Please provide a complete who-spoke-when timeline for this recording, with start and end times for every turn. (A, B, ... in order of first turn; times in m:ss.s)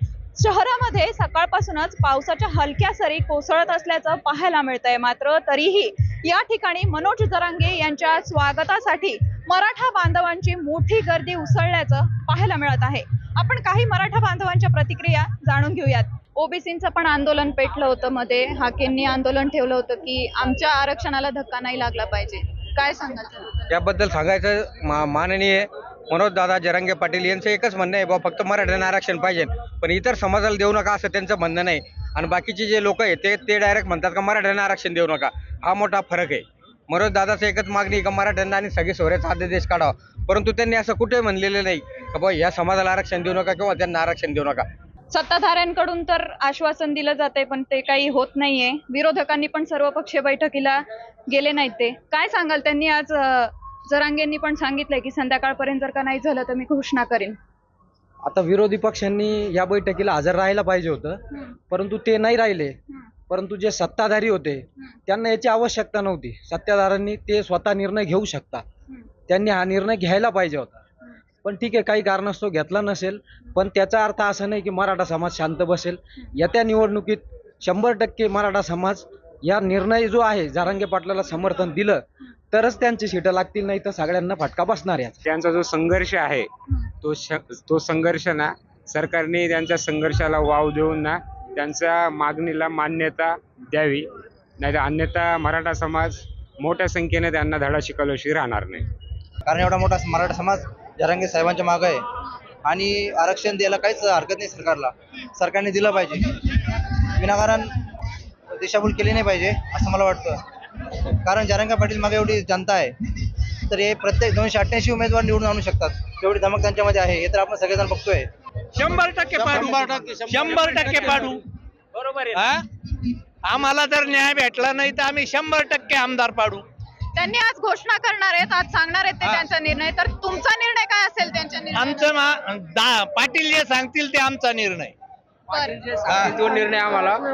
0:00.4-0:23.7 A
0:23.7-0:44.7 B
0:45.1-0:57.4 A
0:58.2-1:02.8 C
1:03.3-1:08.6 C
1:09.3-1:10.8 C
1:11.4-1:25.2 C
1:25.2-1:26.5 D
1:27.0-1:34.1 D
1:34.6-1:38.9 D
1:39.5-1:42.0 E
1:42.6-1:46.3 E
1:47.1-1:47.8 E
1:48.5-1:50.4 E
1:51.2-1:53.0 E
1:53.7-1:58.3 E
1:58.8-2:01.4 F
1:59.4-2:00.0 E
2:02.2-2:02.6 F
2:03.4-2:06.6 F
2:07.2-2:12.2 A
2:11.7-2:14.9 F
2:15.5-2:15.8 A
2:16.1-2:16.4 E